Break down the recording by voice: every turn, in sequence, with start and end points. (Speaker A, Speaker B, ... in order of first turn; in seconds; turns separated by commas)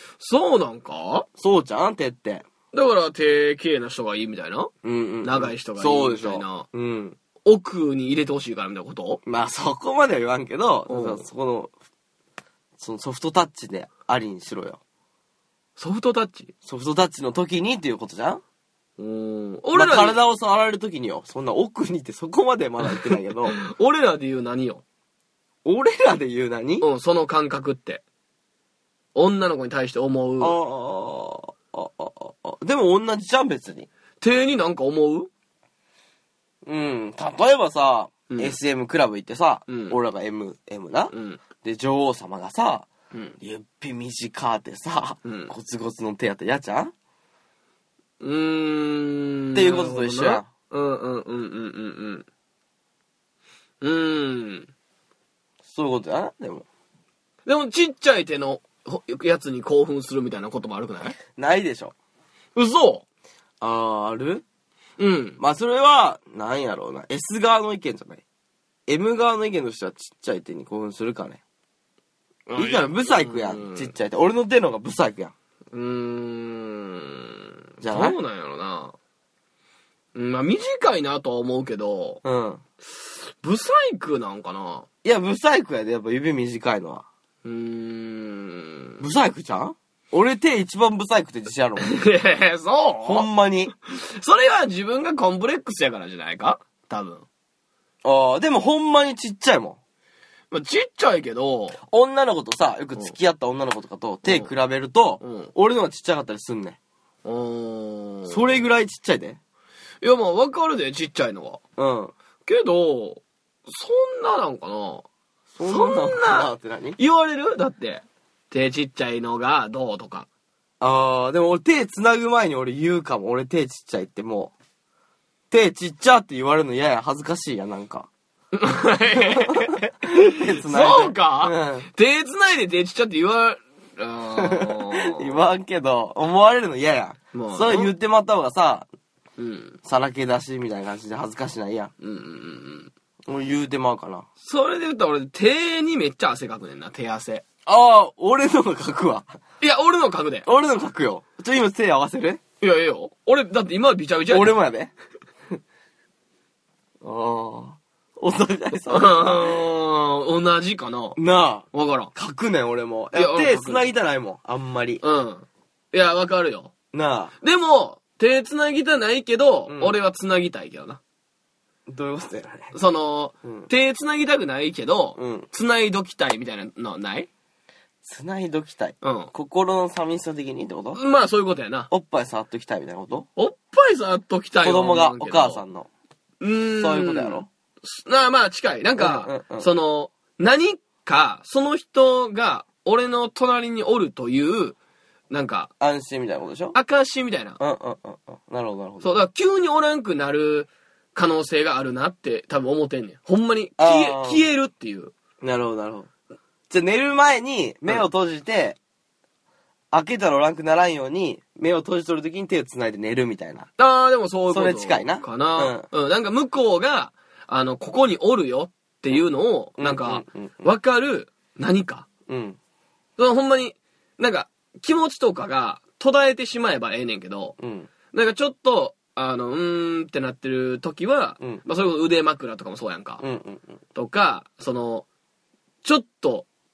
Speaker A: 0.2-1.3, Speaker B: 1.4-2.5, Speaker A: 2.7-4.7, Speaker B: 4.8-7.2, Speaker A: 5.2-6.7, Speaker A: 7.5-9.2, Speaker B: 9.2-11.7, Speaker A: 10.9-11.3, Speaker B: 12.8-14.8, Speaker A: 15.8-16.5, Speaker B: 16.6-18.4, Speaker A: 19.0-20.2, Speaker B: 19.8-23.6, Speaker A: 22.9-24.8, Speaker B: 25.6-26.9, Speaker A: 26.8-28.0, Speaker A: 29.1-30.6, Speaker B: 30.4-33.9, Speaker A: 34.2-35.3, Speaker B: 36.6-42.9, Speaker A: 38.3-38.6, Speaker A: 39.7-40.0, Speaker A: 41.1-41.4, Speaker B: 43.4-46.9, Speaker A: 45.2-45.5, Speaker A: 48.2-52.3, Speaker B: 49.5-50.5, Speaker A: 53.8-54.7, Speaker B: 55.6-56.7, Speaker A: 57.5-61.2, Speaker B: 61.3-61.9, Speaker A: 62.6-63.0, Speaker B: 63.6-64.4, Speaker A: 65.0-65.4, Speaker B: 65.4-68.2, Speaker B: 68.9-71.4, Speaker A: 72.5-73.9, Speaker B: 72.6-75.3, Speaker A: 75.7-79.0, Speaker B: 77.8-78.2, Speaker A: 80.2-82.2, Speaker B: 82.2-82.6, Speaker A: 83.1-84.9, Speaker B: 85.0-87.0, Speaker A: 87.4-89.0, Speaker B: 89.0-92.0, Speaker A: 91.8-93.3, Speaker B: 93.0-93.7, Speaker A: 93.8-97.2, Speaker B: 98.0-99.8, Speaker A: 100.5-101.8, Speaker B: 101.8-106.8, Speaker A: 105.2-105.5, Speaker A: 107.2-108.6, Speaker B: 108.3-109.4, Speaker A: 110.0-111.6, Speaker B: 111.8-112.1, Speaker A: 112.5-115.1, Speaker B: 115.5-117.0, Speaker A: 115.6-120.3, Speaker B: 120.8-124.5, Speaker B: 125.5-128.1, Speaker A: 128.5-135.4, Speaker B: 129.4-131.9, Speaker B: 134.4-138.9, Speaker A: 137.3-137.9, Speaker A: 139.4-139.8, Speaker B: 139.8-141.9, Speaker A: 142.0-142.9, Speaker B: 143.3-144.3, Speaker A: 144.4-147.4, Speaker B: 147.7-149.4, Speaker A: 149.6-150.5, Speaker B: 150.4-152.4, Speaker A: 152.6-154.6, Speaker B: 154.3-154.9, Speaker B: 157.0-159.6, Speaker A: 158.8-161.2, Speaker B: 161.2-165.0, Speaker A: 161.7-162.1, Speaker A: 163.1-163.9, Speaker A: 165.0-166.7, Speaker B: 166.9-167.3, Speaker A: 167.4-171.0, Speaker B: 169.7-170.0, Speaker B: 171.9-172.8, Speaker A: 172.7-177.3, Speaker B: 173.4-173.7, Speaker B: 175.2-175.5, Speaker B: 178.0-181.0, Speaker A: 179.0-179.3, Speaker A: 180.9-181.9, Speaker B: 181.9-183.3, Speaker A: 183.4-185.6, Speaker B: 184.6-185.9, Speaker A: 186.4-194.8, Speaker B: 186.8-187.5, Speaker B: 189.0-189.7, Speaker A: 195.3-195.7, Speaker B: 195.8-196.8, Speaker A: 196.8-197.6, Speaker B: 197.6-199.1, Speaker A: 199.0-205.1, Speaker B: 203.8-204.4, Speaker B: 205.4-206.1, Speaker B: 206.7-208.8, Speaker B: 209.9-213.7, Speaker A: 213.8-222.1, Speaker B: 214.5-215.9, Speaker B: 219.8-220.7, Speaker B: 222.3-222.6, Speaker A: 223.2-227.6, Speaker B: 227.6-227.9, Speaker A: 228.1-233.2, Speaker B: 233.2-233.8, Speaker A: 233.9-235.1, Speaker A: 235.8-236.5